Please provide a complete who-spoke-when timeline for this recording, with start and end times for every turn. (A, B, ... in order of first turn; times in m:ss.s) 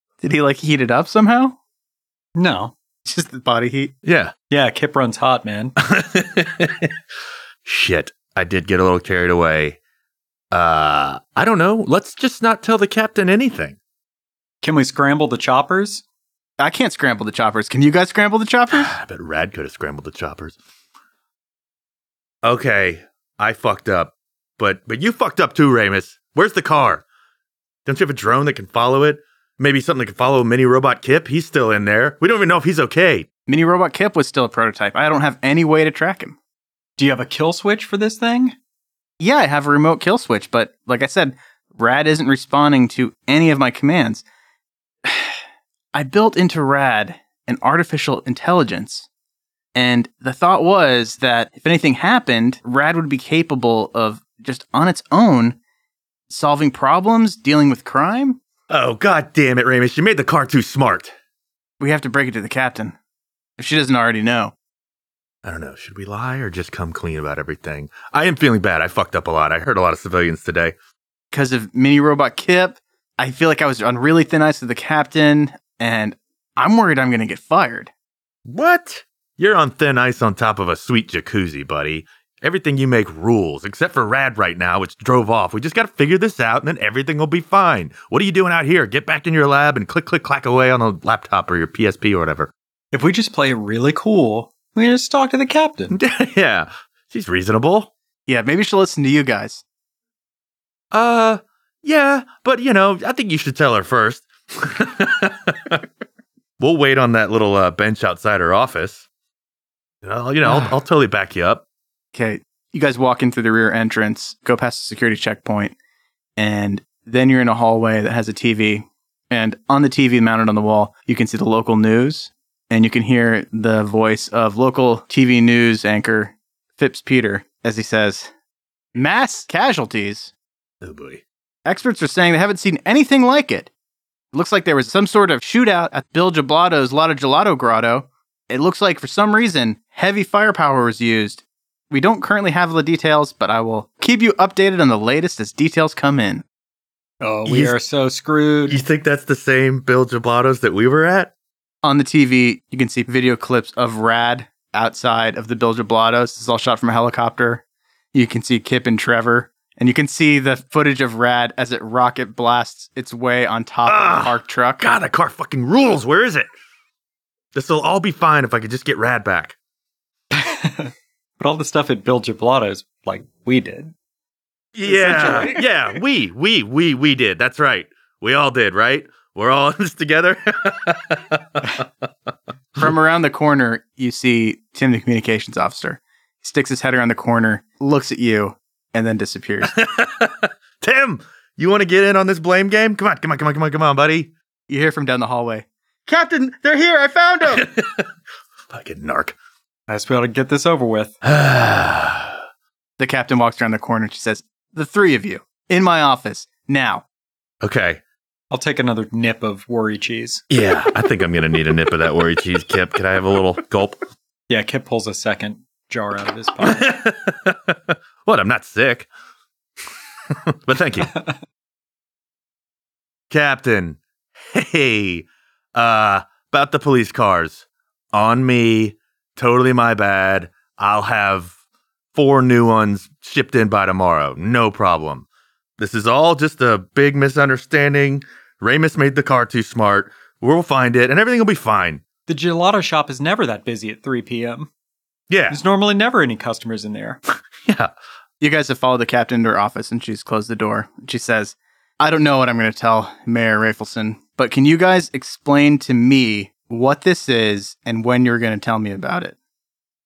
0:00.2-0:01.6 A
0:02.4-0:02.7 B
0:03.0-0:03.9 A
0:04.0-0:04.3 C
0:04.5-0:05.8 B
0:05.8-0:06.9 C
0:07.6-0:09.8 C
0:10.5-0:13.8 C
0:14.6-0:16.0 B
0:16.6-0:18.9 A
0:18.7-0:20.6 C
0:22.4-0:27.0 C
0:27.8-0:33.3 C
0:33.5-0:36.4 A
0:37.0-0:38.5 B
0:39.2-0:44.2 A
0:45.0-0:45.4 A
0:45.9-0:49.1 A
0:49.7-0:55.6 A
0:56.3-0:58.4 A
0:58.7-1:01.1 C
1:01.8-1:03.0 A
1:03.6-1:04.5 A
1:05.4-1:10.7 C
1:11.3-1:17.9 A
1:18.5-1:32.5 C
1:32.9-1:36.0 B
1:35.9-1:37.9 C
1:38.2-1:39.6 A
1:40.9-1:45.8 C
1:46.6-1:49.0 C
1:50.0-1:51.6 C
1:52.1-1:55.7 A
1:56.4-2:08.3 A
2:08.9-2:10.3 A
2:10.8-2:11.2 C
2:11.6-2:13.7 A
2:14.3-2:26.4 A
2:27.2-2:28.8 B
2:27.5-2:27.7 C
2:28.7-2:31.3 C
2:31.8-2:37.6 A
2:38.1-2:44.8 A
2:43.8-2:46.5 C
2:47.5-2:49.6 C
2:50.3-2:53.9 B
2:54.7-3:01.9 C
2:54.9-2:55.6 B
2:55.0-2:55.6 A
3:02.8-3:09.7 A
3:09.8-3:14.3 C
3:14.7-3:15.7 A
3:16.1-3:16.3 C
3:16.3-3:17.6 A
3:17.4-3:18.0 C
3:18.7-3:19.4 C
3:19.9-3:21.1 B
3:21.2-3:22.4 C
3:23.0-3:27.0 A
3:27.6-3:28.0 C
3:28.5-3:30.4 B
3:30.5-3:34.0 C
3:34.5-3:36.9 B
3:36.6-3:39.1 C
3:40.3-3:41.1 C
3:43.3-3:51.5 C
3:52.1-3:55.3 C
3:55.8-4:02.0 C
4:02.3-4:04.7 B
4:05.3-4:05.6 C
4:05.5-4:07.2 B
4:07.6-4:07.9 C
4:08.4-4:19.4 A